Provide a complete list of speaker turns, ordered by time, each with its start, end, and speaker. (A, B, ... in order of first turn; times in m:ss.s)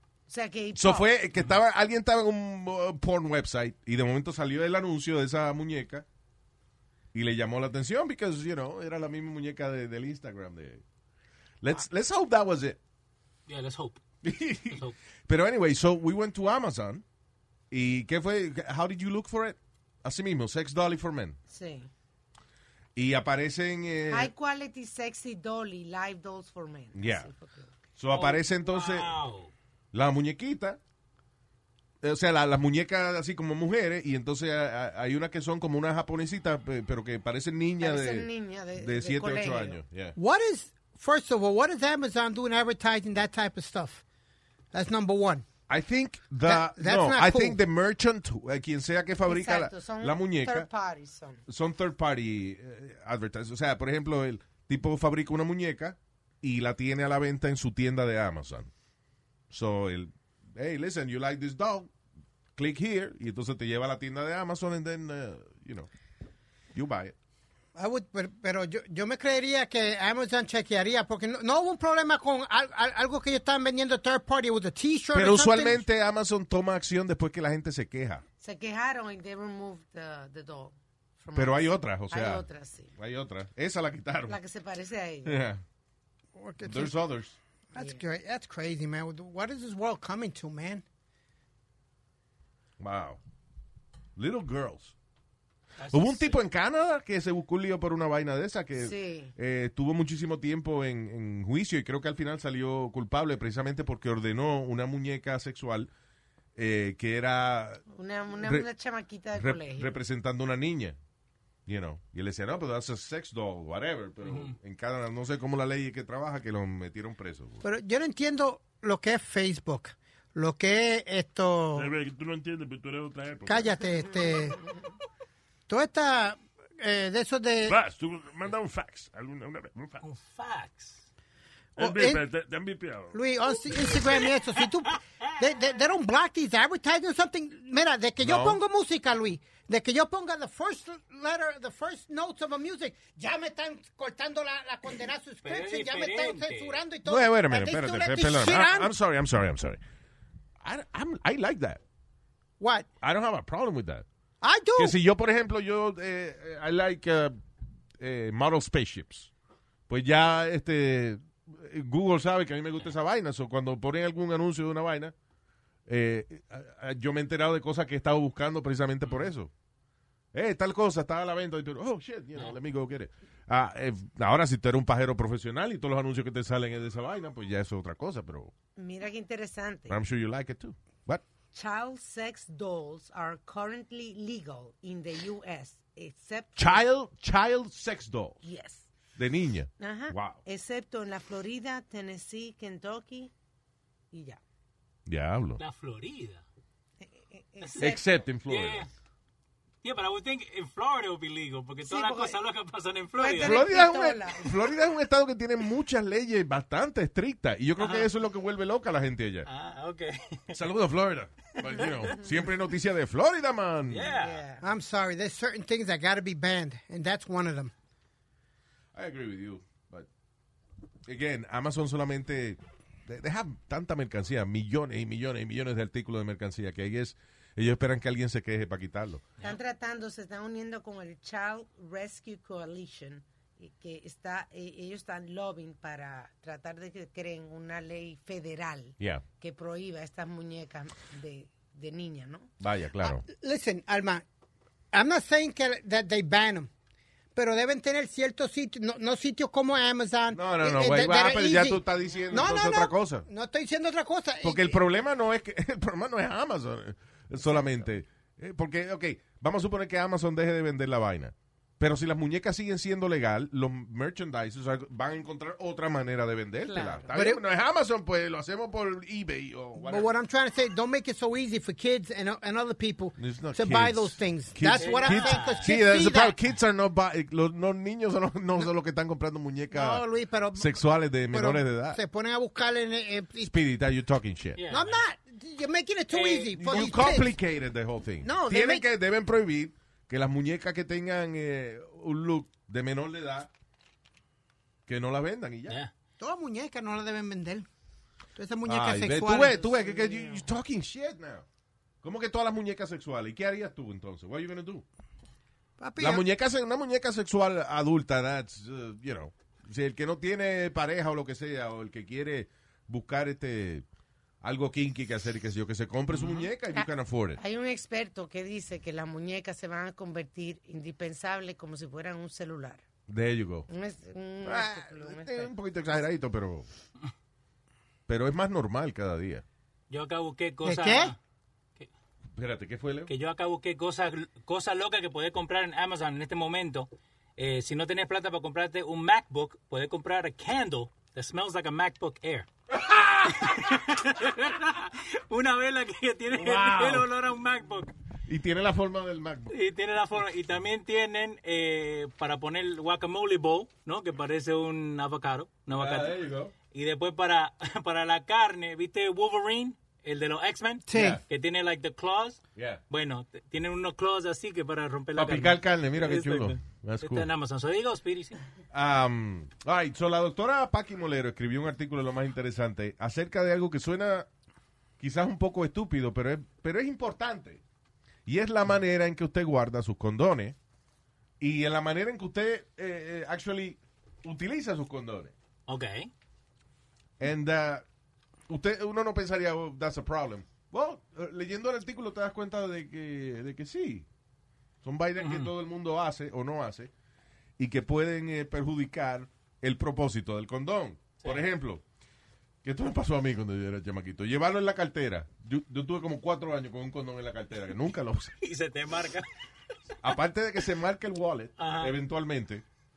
0:00.3-0:01.1 A
0:00.7-0:06.0 B
0:07.1-0:10.8 B
0:11.6-0:12.8 B
0:13.5-0:14.0 C
0:14.2-0:17.0 B
0:14.7-0:15.0 C
0:17.7-0:21.4 B
0:21.5-0:21.9 A
0:23.0-0:24.3 B
0:24.1-0:27.7 A
0:26.9-0:27.3 B
0:28.0-0:29.1 B
0:28.1-0:29.5 C
0:29.9-0:30.8 B
0:32.0-0:40.2 B
0:37.8-0:39.8 A
0:40.2-0:44.0 D
0:44.7-0:45.4 D
0:45.7-0:50.7 B
0:46.4-0:47.6 D
0:49.2-0:51.4 A
0:51.5-0:58.7 B
0:59.5-1:01.9 B
1:02.6-1:05.9 B
1:06.7-1:07.1 B
1:07.7-1:15.8 D
1:15.1-1:18.2 B
1:18.4-1:22.9 A
1:21.3-1:24.4 B
1:24.3-1:25.4 A
1:25.2-1:25.6 B
1:26.4-1:27.0 D
1:26.6-1:27.4 B
1:27.7-1:30.8 D
1:27.8-1:28.0 A
1:32.8-1:33.2 B
1:34.2-1:34.9 B
1:35.8-1:36.4 C
1:35.9-1:45.9 B
1:38.8-1:39.3 A
1:46.6-1:47.8 B
1:47.9-1:49.9 A
1:48.4-1:48.6 B
1:49.4-1:51.0 B
1:51.6-1:57.6 B
1:54.2-1:54.5 C
1:57.6-2:01.9 D
2:01.7-2:03.7 E
2:03.4-2:04.6 D
2:05.7-2:07.8 D
2:07.6-2:10.0 E
2:10.0-2:11.1 C
2:11.8-2:13.2 E
2:11.8-2:12.2 D
2:13.1-2:28.9 D
2:18.2-2:18.6 B
2:25.4-2:26.8 C
2:27.0-2:29.8 B
2:30.6-2:31.8 B
2:32.6-2:32.9 D
2:33.0-2:34.0 B
2:34.4-2:35.0 D
2:34.8-2:37.4 B
2:38.0-2:39.3 B
2:39.9-2:45.1 B
2:45.9-2:49.5 B
2:49.0-2:49.3 C
2:50.3-2:58.5 B
2:58.8-3:00.0 A
2:59.9-3:01.2 B
3:01.5-3:06.8 A
3:06.6-3:08.4 B
3:08.4-3:08.9 A
3:09.2-3:10.4 B
3:09.8-3:13.3 A
3:14.1-3:14.4 A
3:15.0-3:15.6 B
3:15.6-3:16.4 C
3:17.0-3:18.0 A
3:17.6-3:17.9 C
3:17.8-3:18.9 B
3:18.5-3:18.9 C
3:19.8-3:23.6 C
3:21.8-3:22.4 A
3:23.2-3:24.6 A
3:23.4-3:29.5 B
3:27.8-3:28.1 C
3:29.4-3:30.6 C
3:30.5-3:34.1 B
3:31.7-3:32.0 C
3:33.9-3:34.4 C
3:34.1-3:34.6 A
3:34.6-3:37.7 D
3:38.9-3:40.1 B
3:41.0-3:49.3 B
3:49.4-4:02.5 A
3:59.0-3:59.2 B
4:02.6-4:03.2 B
4:03.0-4:04.2 D
4:04.9-4:06.7 D
4:07.3-4:14.8 D
4:10.3-4:13.3 B
4:14.4-4:30.1 B
4:26.6-4:27.1 A
4:27.1-4:27.4 D
4:29.8-4:36.4 D
4:33.2-4:40.0 B
4:34.7-4:35.7 C
4:39.7-4:43.5 D
4:40.6-4:42.0 B
4:43.4-4:44.6 B
4:44.6-4:45.0 C
4:44.7-4:47.3 D
4:46.1-4:47.0 C
4:46.6-4:53.5 B
4:48.2-4:48.8 D
4:54.9-4:55.8 B
4:56.2-4:57.7 D
4:58.4-5:00.2 D
4:58.6-5:01.4 B
5:02.0-5:04.8 B
5:05.8-5:06.2 D
5:06.0-5:13.8 B
5:14.4-5:17.4 B
5:16.1-5:16.5 C
5:16.7-5:22.8 A
5:23.1-5:23.7 B
5:23.7-5:25.5 A
5:24.4-5:26.7 B
5:28.1-5:29.4 B
5:29.9-5:31.2 C
5:30.6-5:31.1 D
5:32.4-5:33.1 B
5:33.1-5:42.5 C
5:43.1-5:47.9 C
5:46.3-5:47.1 B
5:48.3-5:49.5 B
5:49.5-6:08.4 C
5:55.7-5:56.5 B
6:00.9-6:01.2 D
6:00.9-6:01.2 B
6:02.6-6:02.8 B
6:05.2-6:07.3 B
6:08.7-6:14.3 B
6:15.0-6:17.6 B
6:18.2-6:20.6 B
6:21.4-6:25.3 B
6:25.7-6:26.1 C
6:27.2-6:27.8 B
6:28.5-6:34.1 B
6:34.8-6:36.9 B
6:35.2-6:35.5 C
6:37.6-6:41.8 B
6:42.6-6:48.4 B
6:48.4-6:49.3 C
6:50.0-6:52.6 B
6:51.6-6:52.0 C